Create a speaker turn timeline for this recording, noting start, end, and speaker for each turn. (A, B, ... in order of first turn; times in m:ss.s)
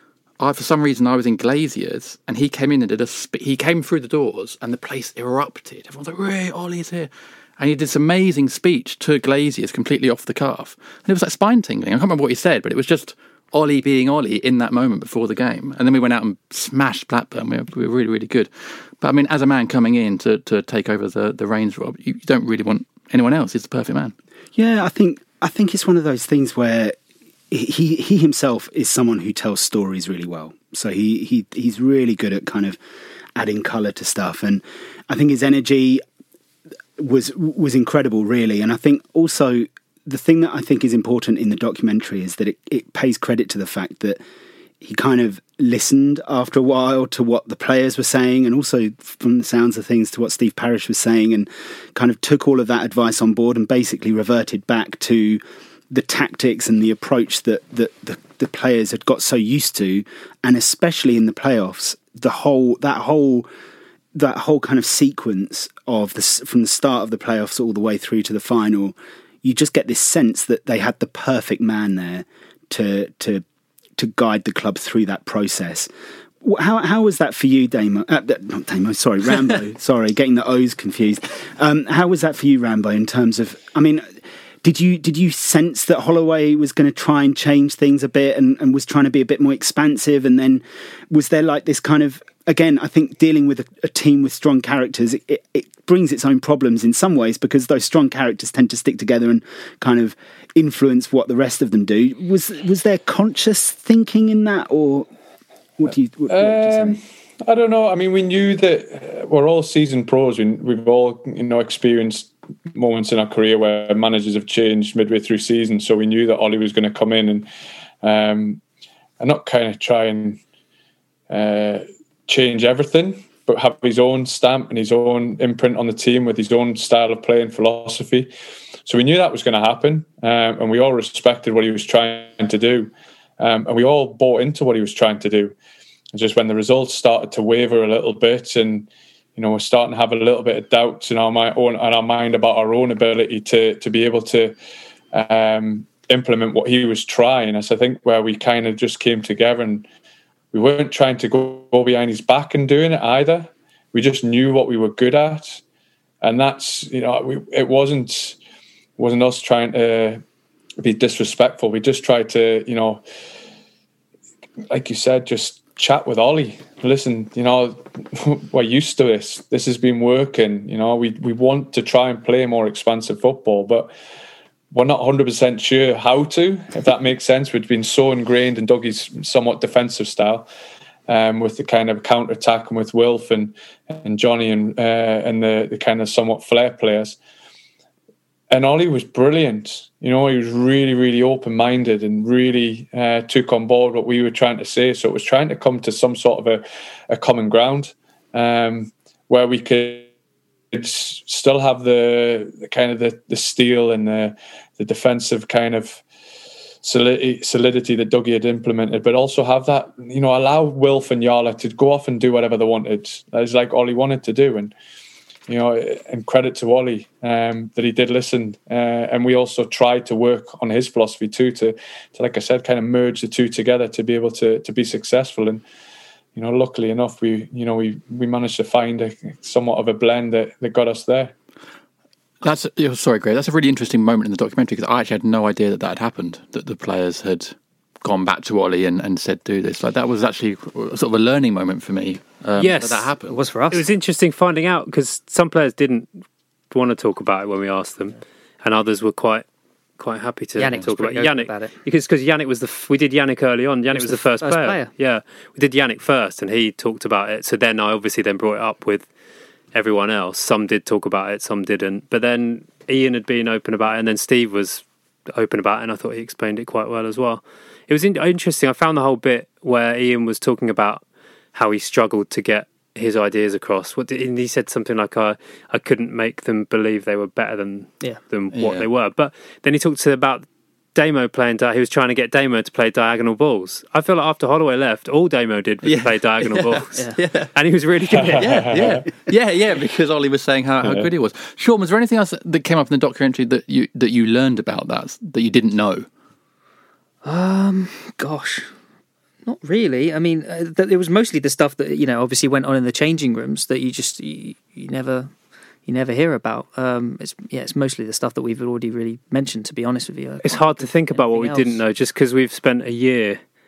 0:00.4-0:24.1 A
0:24.6-0:27.0 B
0:27.5-0:32.8 B
0:33.3-0:36.0 B
0:37.0-0:44.2 B
0:44.8-1:03.5 B
1:04.1-1:13.4 B
1:14.0-1:15.9 B
1:16.4-1:45.1 B
1:45.8-1:47.0 B
1:46.3-1:57.5 C
1:58.0-1:58.6 C
1:59.2-2:00.4 C
2:01.3-2:08.3 C
2:08.9-2:15.5 C
2:16.1-2:24.5 C
2:25.1-2:29.8 C
2:30.5-2:35.6 C
2:36.2-2:38.4 C
2:39.0-2:40.2 C
2:40.8-2:43.0 C
2:44.7-2:53.9 C
2:54.7-3:00.5 C
3:01.1-3:07.2 C
3:08.5-3:20.1 C
3:20.7-3:26.0 C
3:26.8-3:34.7 C
3:35.5-3:45.6 C
3:46.3-3:51.3 C
3:52.4-4:03.4 A
4:02.6-4:03.1 D
4:03.3-4:03.8 E
4:03.7-4:06.1 D
4:06.7-4:09.4 D
4:10.0-4:19.1 D
4:10.6-4:11.7 E
4:13.9-4:14.9 E
4:19.7-4:48.7 D
4:38.5-4:38.9 A
4:45.8-4:47.5 A
4:48.1-4:49.1 C
4:48.2-4:56.1 A
4:50.8-4:51.1 C
4:57.2-4:58.7 E
4:59.4-5:05.3 E
5:05.9-5:11.8 E
5:10.4-5:13.4 D